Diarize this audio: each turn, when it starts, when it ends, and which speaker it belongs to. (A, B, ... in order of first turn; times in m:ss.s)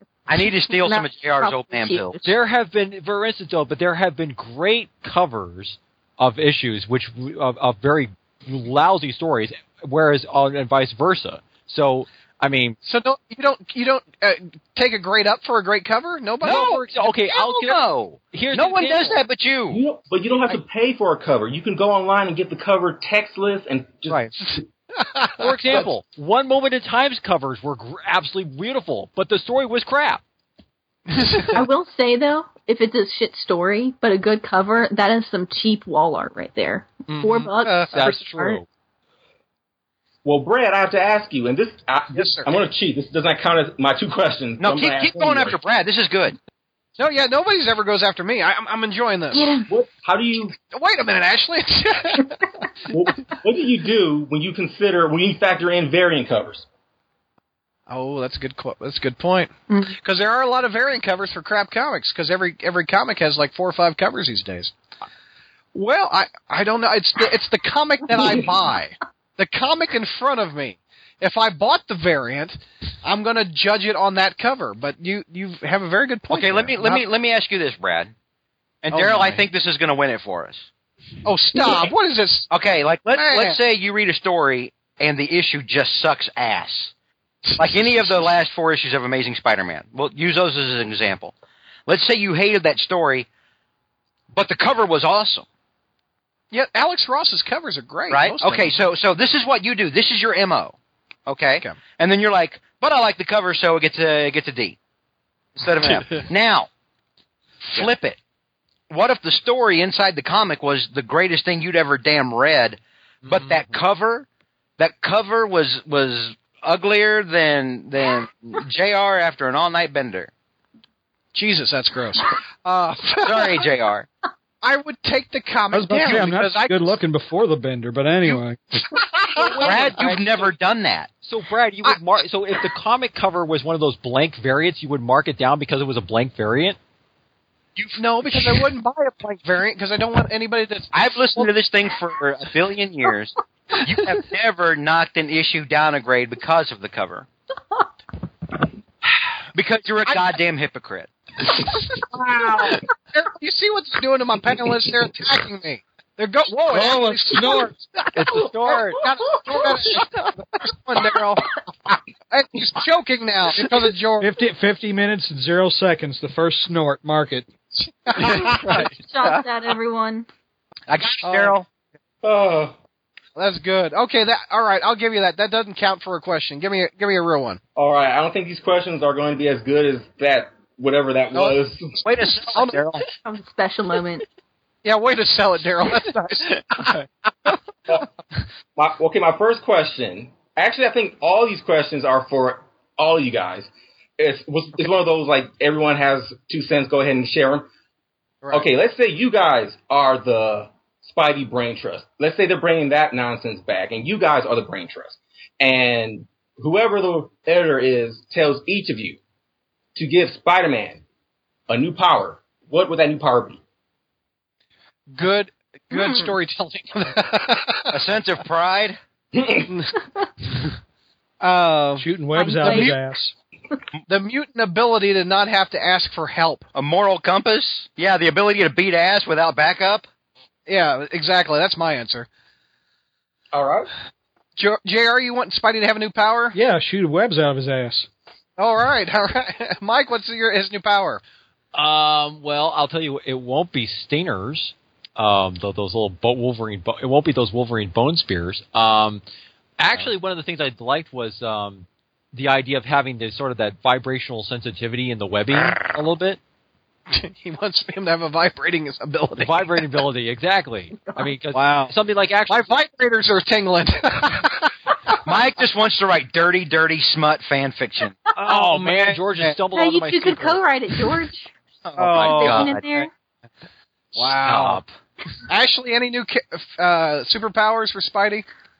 0:00.3-0:02.2 A
0:00.3-0:02.3 B
0:02.2-0:12.8 C
0:12.8-0:17.0 D
0:16.4-0:19.2 C
0:16.4-0:16.8 A
0:17.3-0:19.8 A
0:19.7-0:24.6 E
0:25.0-0:25.9 D
0:25.4-0:30.2 C
0:31.1-0:31.6 D
0:31.5-0:38.6 B
0:37.1-0:37.9 D
0:37.9-0:38.6 C
0:40.2-0:45.6 E
0:42.1-0:42.5 D
0:44.6-0:46.4 A
0:47.0-0:49.4 D
0:49.3-0:49.7 B
0:49.7-0:50.6 E
0:50.7-0:52.4 D
0:52.9-0:56.7 E
0:57.9-1:04.7 D
1:05.7-1:17.0 D
1:16.3-1:18.1 A
1:18.8-1:20.7 A
1:18.9-1:19.4 D
1:21.2-1:22.5 D
1:22.5-1:26.9 A
1:23.1-1:23.6 D
1:27.5-1:28.3 D
1:27.6-1:31.3 A
1:31.9-1:33.3 A
1:34.3-1:35.4 A
1:36.5-1:38.8 D
1:38.1-1:40.8 A
1:41.3-1:44.8 A
1:45.6-1:46.7 A
1:45.8-1:46.2 D
1:47.7-1:48.2 A
1:48.9-1:54.3 A
1:53.2-1:53.7 C
1:54.8-2:00.3 A
2:01.3-2:03.6 D
2:03.2-2:04.1 A
2:04.6-2:06.9 D
2:05.7-2:08.8 F
2:09.2-2:09.8 D
2:09.4-2:10.5 C
2:09.6-2:11.1 A
2:11.2-2:16.8 C
2:17.8-2:18.6 A
2:18.0-2:21.5 D
2:20.9-2:27.3 A
2:29.6-2:31.1 A
2:32.1-2:37.8 D
2:36.7-2:37.8 F
2:38.1-2:39.0 C
2:38.6-2:41.4 D
2:42.3-2:44.3 D
2:44.2-2:47.5 F
2:48.0-2:48.9 D
2:48.8-2:50.3 B
2:50.9-2:51.6 A
2:51.2-2:51.6 D
2:52.2-2:52.8 E
2:53.4-2:57.6 D
2:57.8-3:01.9 E
3:01.4-3:01.6 D
3:02.0-3:03.0 A
3:02.4-3:02.9 D
3:03.2-3:04.3 B
3:04.8-3:07.0 D
3:08.8-3:17.7 E
3:18.4-3:18.7 D
3:18.5-3:29.2 E
3:30.0-3:31.0 E
3:31.7-3:33.6 E
3:35.1-3:38.0 D
3:35.9-3:36.3 B
3:37.9-3:39.0 A
3:39.4-3:39.7 E
3:39.7-3:39.9 D
3:41.4-3:42.1 D
3:42.0-3:43.3 F
3:42.3-3:43.0 B
3:42.6-3:42.9 D
3:44.1-3:46.7 D
3:46.8-3:50.1 A
3:50.7-3:52.3 D
3:53.5-3:53.9 E
3:54.6-3:56.6 D
3:56.6-3:58.1 F
3:58.6-4:01.2 D
4:01.7-4:09.2 C
4:09.8-4:16.4 C
4:17.1-4:19.8 D
4:19.4-4:22.8 C
4:21.0-4:21.3 B
4:21.5-4:22.0 D
4:22.5-4:24.7 D
4:25.2-4:28.2 A
4:28.4-4:30.6 C
4:28.4-4:29.6 D
4:29.7-4:31.5 B
4:31.9-4:33.0 A
4:32.0-4:32.8 D
4:32.2-4:33.1 B
4:34.2-4:34.8 D
4:34.2-4:34.9 A
4:35.5-4:38.5 D